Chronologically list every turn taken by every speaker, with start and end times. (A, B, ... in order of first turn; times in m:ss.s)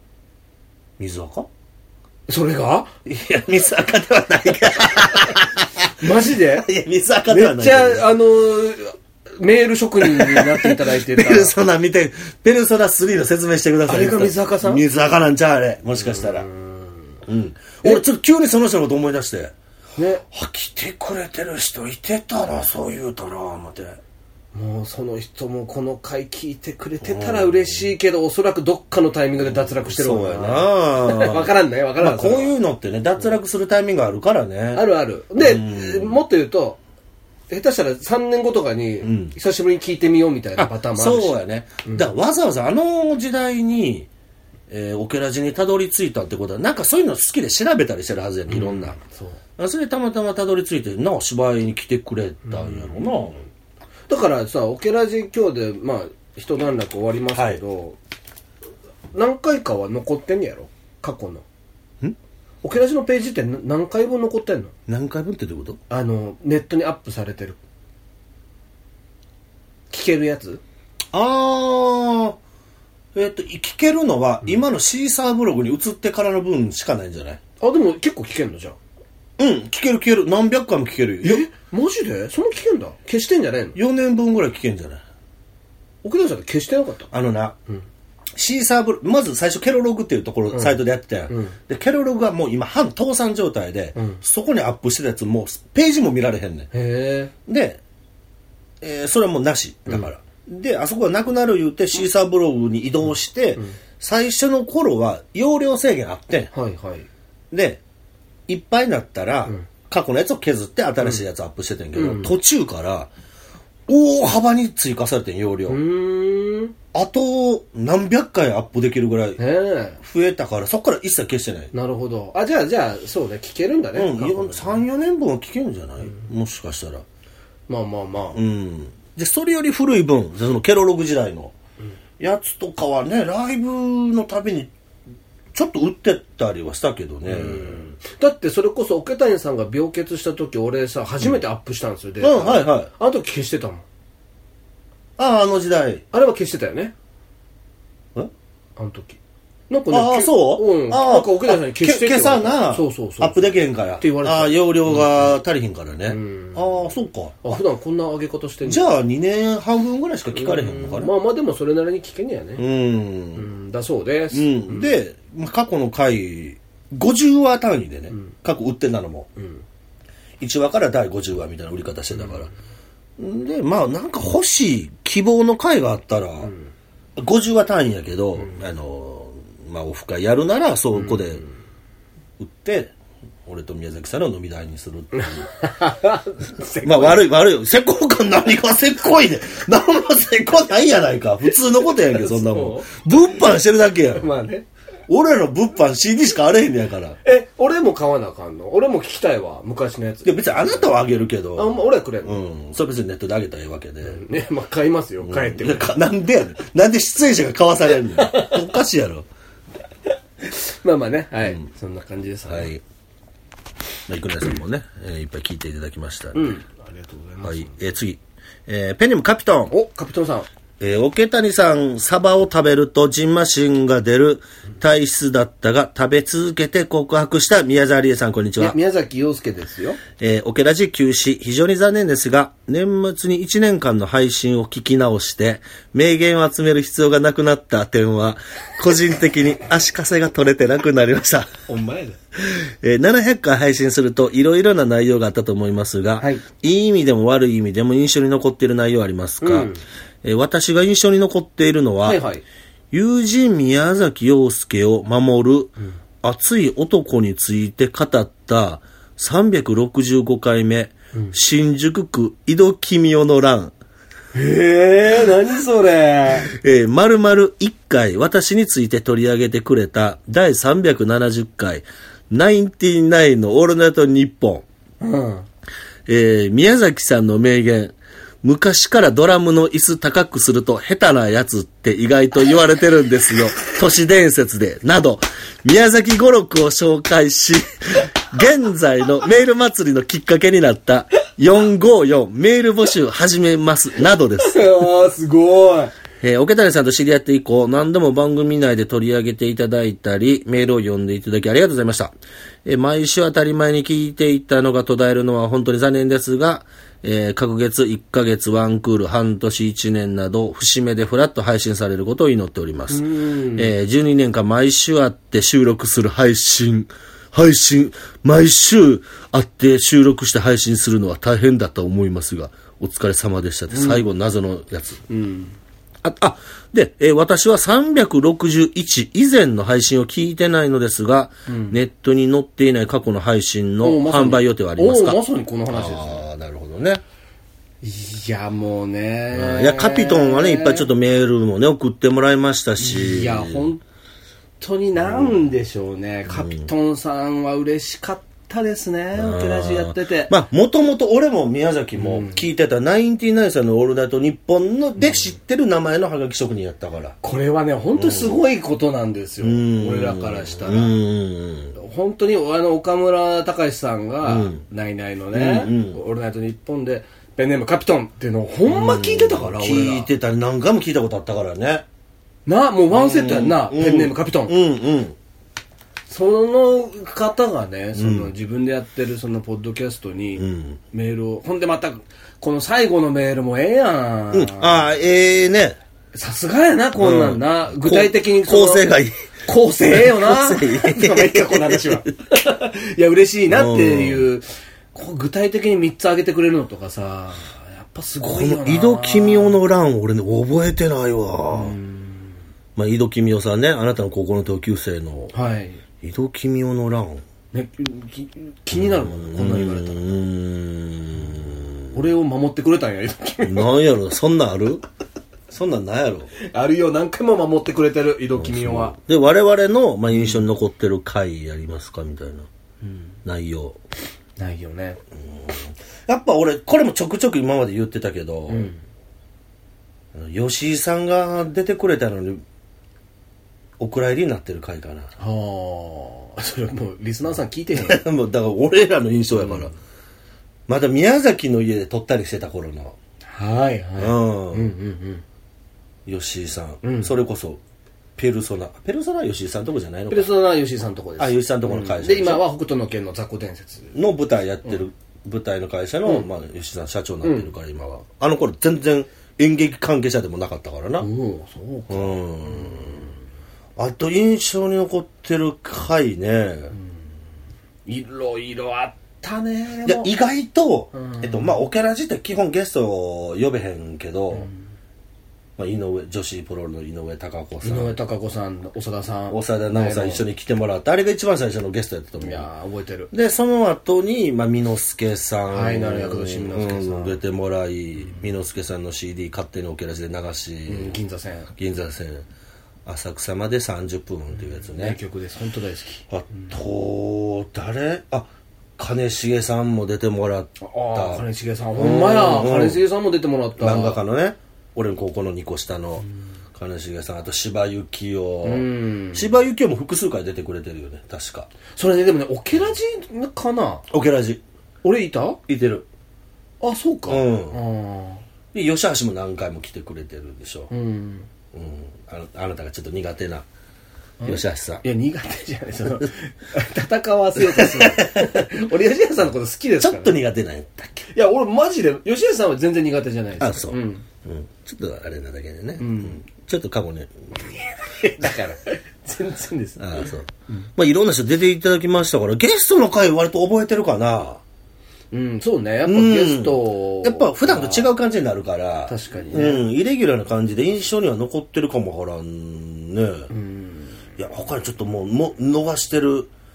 0:01.0-0:01.5 A
0:02.3-0:02.9 B
0:03.0-0:08.1 A
0:06.0-0:06.7 B
0:07.3-0:11.5 B
0:10.0-0:16.5 A
0:13.9-0:14.8 B
0:16.0-0:17.2 B
0:17.2-0:19.5 A
0:20.0-0:20.2 B
0:20.2-0:24.0 A
0:24.5-0:32.5 B
0:27.0-0:27.9 A
0:29.4-0:34.8 A
0:34.7-0:36.8 B
0:35.4-0:36.2 A
0:37.5-0:42.1 B
0:39.0-0:39.3 A
0:40.6-0:44.1 A
0:44.7-0:49.0 A
0:48.5-0:49.4 B
0:49.6-0:53.4 A
0:52.5-0:53.1 B
0:54.1-0:58.0 B
0:57.3-0:57.6 A
0:59.1-1:01.4 B
1:02.6-1:04.7 B
1:04.9-1:05.8 A
1:05.9-1:07.6 B
1:09.9-1:10.6 B
1:11.1-1:12.4 A
1:13.1-1:17.4 A
1:17.6-1:18.8 B
1:19.4-1:21.4 A
1:21.2-1:23.8 B
1:23.7-1:25.0 A
1:26.0-1:27.1 B
1:27.1-1:27.6 A
1:28.4-1:36.7 A
1:30.5-1:30.8 B
1:31.3-1:31.6 B
1:34.0-1:34.2 B
1:36.7-1:37.3 B
1:37.4-1:37.8 A
1:38.8-1:46.5 A
1:46.5-1:47.1 B
1:47.5-1:47.8 A
1:48.5-1:53.1 A
1:52.0-1:52.3 B
1:53.9-1:55.8 A
1:55.7-1:56.7 B
1:56.9-1:59.4 A
1:59.4-2:00.0 B
2:00.0-2:01.7 A
2:01.7-2:04.8 B
2:03.9-2:07.0 A
2:07.7-2:08.4 B
2:08.3-2:11.5 A
2:12.2-2:14.7 A
2:15.5-2:17.8 A
2:17.2-2:23.8 B
2:22.2-2:22.9 A
2:25.2-2:26.0 A
2:26.1-2:26.9 B
2:28.8-2:29.2 B
2:29.7-2:35.3 B
2:29.9-2:37.6 A
2:36.1-2:36.7 B
2:37.4-2:38.9 B
2:38.6-2:41.1 A
2:40.3-2:42.6 B
2:42.6-2:43.5 A
2:43.3-2:44.9 B
2:44.3-2:49.3 A
2:50.4-2:52.5 A
2:53.2-2:56.5 A
2:57.2-3:01.4 A
3:00.9-3:01.2 B
3:02.4-3:02.9 A
3:03.4-3:05.5 A
3:05.1-3:07.2 B
3:06.8-3:14.3 A
3:11.8-3:12.9 B
3:14.1-3:14.6 B
3:15.1-3:17.2 A
3:17.2-3:20.8 B
3:20.2-3:24.2 A
3:21.6-3:22.4 B
3:24.0-3:25.9 B
3:25.2-3:29.3 A
3:28.1-3:28.6 B
3:30.4-3:32.7 B
3:32.5-3:32.8 A
3:34.1-3:36.5 A
3:36.3-3:37.7 B
3:37.4-3:39.7 A
3:39.7-3:40.5 B
3:40.8-3:48.8 A
3:48.6-3:50.0 B
3:50.2-4:01.5 A
4:01.7-4:02.2 B
4:02.4-4:09.7 A
4:09.4-4:09.8 B
4:10.2-4:12.2 A
4:12.0-4:12.4 B
4:12.9-4:23.7 A
4:24.3-4:26.5 B
4:26.5-4:34.6 A
4:35.0-4:35.4 B
4:36.1-4:54.7 A
4:54.4-4:55.9 B
4:56.2-5:25.0 A
5:12.9-5:13.7 B
5:23.7-5:24.0 B
5:25.1-5:25.6 B
5:26.0-5:35.2 A
5:31.5-5:31.8 B
5:33.8-5:36.2 B
5:35.7-5:37.0 A
5:37.8-5:40.9 B
5:39.3-5:43.6 A
5:42.8-5:43.8 B
5:44.6-5:50.3 B
5:45.0-5:45.5 A
5:46.3-5:46.7 A
5:49.1-5:57.2 A
5:52.0-5:52.4 B
5:57.2-6:01.0 B
5:57.9-5:58.4 A
5:59.4-6:01.7 A
6:01.7-6:10.1 B
6:04.2-6:04.6 A
6:05.3-6:06.0 A
6:08.6-6:11.8 A
6:12.4-6:14.6 B
6:12.9-6:15.2 A
6:16.1-6:24.9 B
6:18.0-6:18.3 A
6:20.4-6:20.8 A
6:24.3-6:25.8 A
6:26.1-6:28.8 B
6:27.0-6:29.2 A
6:29.5-6:39.6 B
6:29.9-6:32.1 A
6:33.5-6:34.3 A
6:38.2-6:41.8 A
6:41.5-6:42.3 B
6:42.8-6:45.3 A
6:45.3-6:45.8 B
6:46.0-6:47.2 A
6:47.5-6:50.0 B
6:48.7-6:52.0 A
6:51.9-6:53.7 B
6:53.4-6:54.8 A
6:55.5-6:56.3 A
6:56.4-6:59.0 B
6:58.4-7:02.5 A
7:03.2-7:03.8 A
7:04.4-7:05.0 B
7:05.2-7:08.7 A
7:08.5-7:08.8 B
7:10.1-7:12.4 A
7:13.8-7:15.1 A
7:15.2-7:18.0 B
7:17.8-7:19.7 A
7:19.3-7:19.7 B
7:20.7-7:23.0 A
7:23.3-7:25.2 B
7:24.0-7:24.7 A
7:26.0-7:27.6 A
7:26.8-7:27.1 B
7:28.2-7:30.3 A
7:30.1-7:34.0 B
7:31.2-7:32.4 A
7:33.9-7:41.1 A
7:37.2-7:37.5 B
7:41.0-7:43.2 B
7:41.9-7:43.1 A
7:43.8-7:46.7 A
7:47.8-7:50.1 B
7:49.8-7:54.5 A
7:50.9-7:51.5 B
7:55.6-7:58.0 A
7:57.6-8:00.2 B
7:59.3-8:02.5 A
8:02.2-8:03.1 B
8:03.1-8:11.0 A
8:05.5-8:07.2 B
8:10.7-8:11.5 B
8:11.6-8:12.2 A
8:12.8-8:15.0 A
8:14.6-8:16.5 B
8:16.1-8:21.2 A
8:20.6-8:24.0 B
8:21.8-8:22.8 A
8:23.6-8:31.5 A
8:28.4-8:29.3 B
8:31.7-8:33.8 B
8:33.9-8:34.4 A
8:34.8-8:35.4 B
8:35.5-8:35.8 A
8:36.6-8:38.2 B
8:37.1-8:37.6 A
8:38.5-8:40.7 A
8:40.7-8:41.3 B
8:41.5-8:43.4 A
8:44.2-8:50.2 B
8:44.2-8:44.8 A
8:47.4-8:48.5 A
8:49.8-8:51.0 A
8:51.1-8:54.0 B
8:53.4-8:57.2 A
8:55.8-8:56.2 B
8:57.5-9:00.6 B
8:59.8-9:04.4 A
9:05.1-9:07.9 B
9:05.8-9:13.3 A
9:08.9-9:09.6 B
9:13.3-9:14.0 B
9:14.2-9:16.3 A